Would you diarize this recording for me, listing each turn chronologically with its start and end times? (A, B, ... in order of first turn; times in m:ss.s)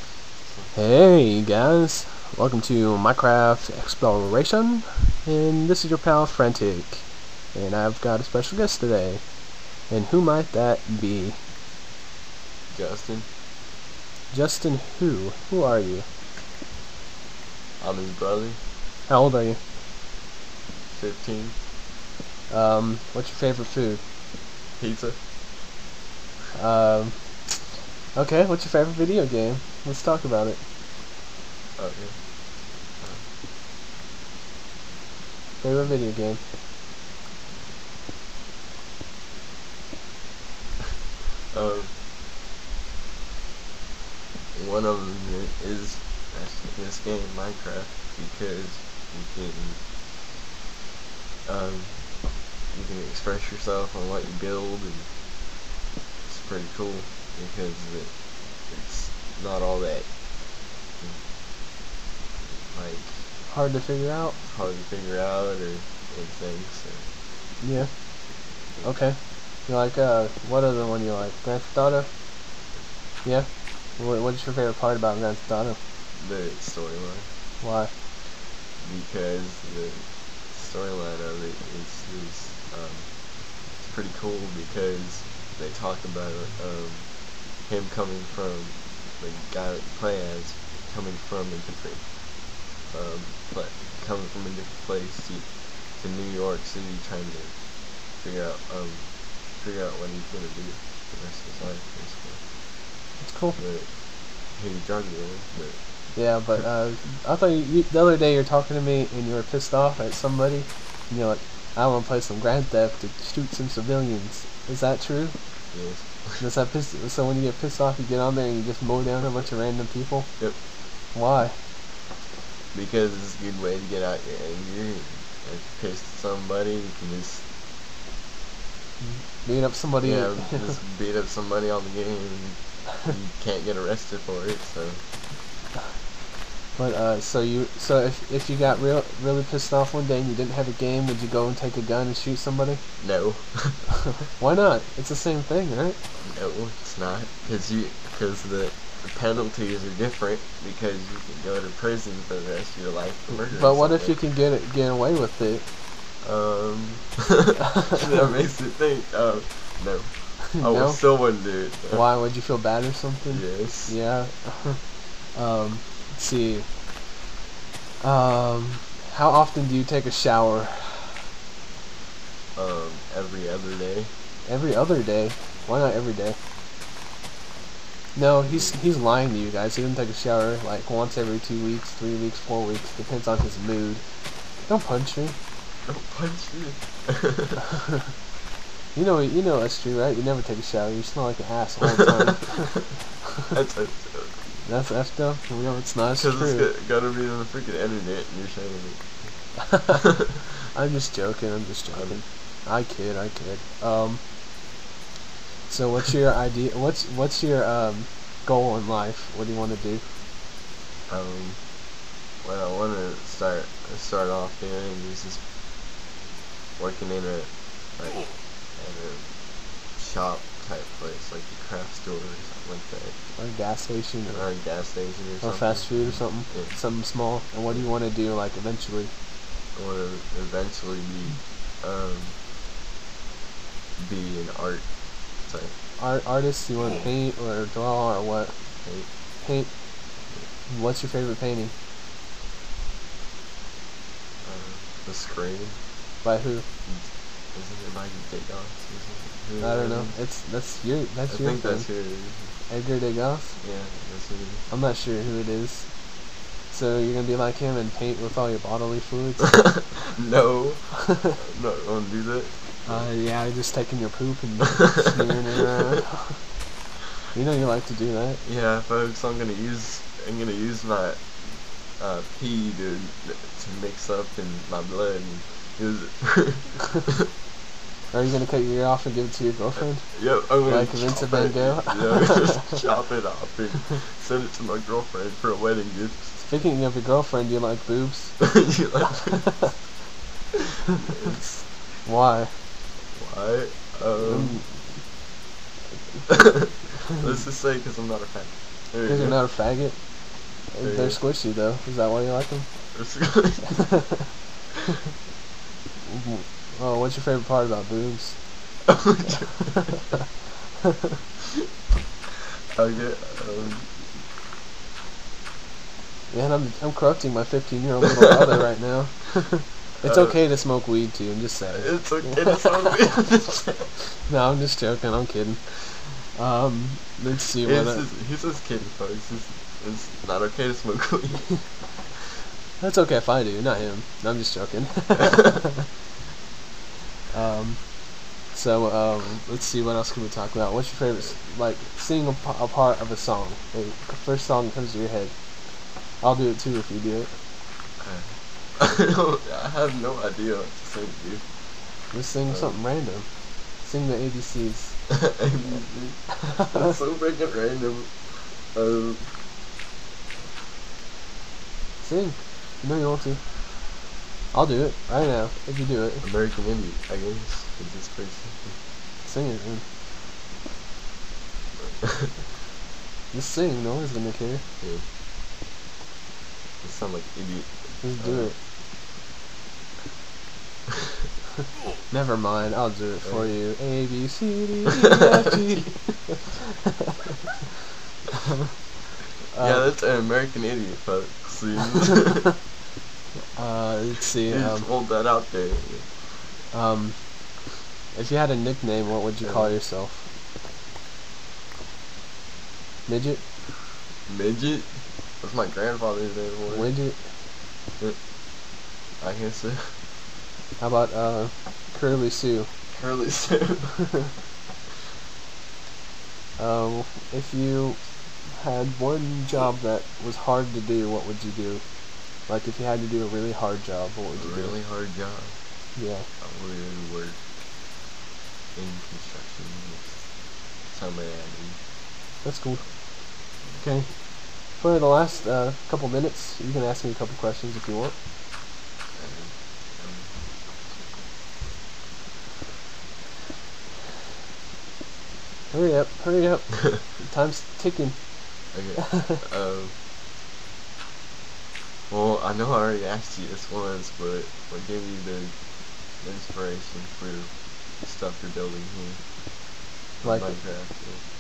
0:00.4-0:00.8 A
0:00.7-0:11.4 B
0:12.7-0:13.3 A
0:14.3-0:16.1 B
0:17.8-0:18.6 A
0:19.1-0:19.6 B
0:20.9-0:21.6 A
0:22.5-0:24.0 B
0:24.8-0:25.2 A
0:26.5-0:30.6 B
0:31.8-0:33.3 A
0:35.6-0:36.4 B
0:41.5-0:42.0 A
0:44.5-0:49.8 A
0:51.4-0:55.2 A
0:56.3-1:00.4 A
1:01.0-1:01.3 A
1:02.4-1:03.3 A
1:03.5-1:04.4 B
1:04.4-1:07.2 A
1:07.6-1:12.2 B
1:08.3-1:09.0 A
1:13.2-1:15.8 B
1:16.2-1:17.4 A
1:17.6-1:17.9 B
1:18.8-1:32.3 A
1:32.8-1:42.5 A
1:43.2-1:43.6 B
1:43.6-1:46.2 A
1:46.1-1:55.8 B
1:55.7-1:56.4 A
1:56.4-2:01.6 B
2:00.4-2:00.6 A
2:02.7-2:07.5 A
2:09.0-2:10.8 B
2:10.0-2:15.1 A
2:16.8-2:23.0 B
2:23.0-2:23.9 A
2:24.3-2:26.0 B
2:26.2-2:34.2 A
2:33.5-2:35.7 B
2:36.2-2:42.1 A
2:40.6-2:41.2 B
2:41.9-2:46.7 B
2:43.3-2:44.0 A
2:48.0-2:51.3 B
2:52.6-2:54.1 A
2:54.5-2:56.4 B
2:58.2-3:04.0 B
2:58.4-2:58.8 A
3:04.6-3:05.4 B
3:05.8-3:07.6 A
3:08.9-3:13.0 B
3:13.5-3:14.7 A
3:14.6-3:16.7 B
3:16.2-3:20.1 A
3:19.8-3:20.1 B
3:20.7-3:24.2 B
3:21.9-3:22.2 A
3:25.7-3:30.0 B
3:31.1-3:31.8 A
3:32.4-3:35.4 A
3:36.8-3:43.3 A
3:43.4-3:44.6 B
3:44.3-3:46.9 A
3:45.4-3:49.1 B
3:47.6-3:47.9 A
3:49.7-3:52.4 A
3:54.0-3:55.8 A
3:56.0-3:58.6 B
3:58.8-3:59.1 A
3:59.4-4:01.7 B
4:04.4-4:05.8 A
4:06.2-4:06.7 B
4:06.8-4:10.3 A
4:09.6-4:12.0 B
4:11.3-4:12.6 A
4:12.7-4:13.6 B
4:13.6-4:14.7 A
4:14.7-4:16.0 B
4:16.6-4:20.0 B
4:19.9-4:23.1 A
4:22.9-4:26.5 B
4:27.3-4:28.4 B
4:28.4-4:37.2 A
4:38.1-4:42.8 B
4:39.8-4:46.5 A
4:46.4-4:48.8 B
4:48.4-4:49.8 A
4:51.0-4:51.7 A
4:52.0-4:52.6 B
4:53.1-4:54.6 A
4:54.2-4:55.1 B
4:56.2-4:57.2 B
4:56.3-4:59.5 A
4:59.1-5:03.1 B
5:00.8-5:01.2 A
5:02.9-5:04.1 A
5:06.0-5:08.8 B
5:08.9-5:09.9 A
5:12.8-5:14.2 A
5:16.3-5:22.7 B
5:20.0-5:20.4 A
5:21.7-5:24.0 A
5:24.3-5:28.1 B
5:27.6-5:31.9 A
5:32.8-5:35.8 B
5:37.3-5:47.4 B
5:48.0-5:52.8 A
5:52.1-5:55.3 B
5:55.1-5:59.3 A
6:02.0-6:06.3 B
6:06.2-6:08.8 A
6:09.2-6:09.9 B
6:11.8-6:12.4 A
6:13.3-6:14.6 B
6:16.8-6:18.6 A
6:18.0-6:18.6 B
6:22.0-6:26.6 B
6:23.2-6:23.5 A
6:29.5-6:29.9 B
6:29.6-6:32.5 A
6:33.6-6:34.9 B
6:34.4-6:36.4 A
6:36.7-6:37.4 B
6:38.1-6:40.3 B
6:39.4-6:39.8 A
6:43.1-6:43.5 B
6:44.3-6:47.0 A
6:46.7-6:47.4 B
6:49.2-6:50.0 A
6:50.8-6:52.7 B
6:52.9-6:54.2 A
6:56.6-7:04.8 B
7:04.4-7:05.6 A
7:06.0-7:06.3 B
7:06.4-7:07.4 A
7:08.7-7:11.8 A
7:12.4-7:18.2 B
7:13.6-7:13.9 A
7:19.1-7:20.9 A
7:25.7-7:29.4 B
7:28.7-7:30.0 A
7:32.1-7:39.3 A
7:40.2-7:41.2 A
7:40.2-7:40.6 B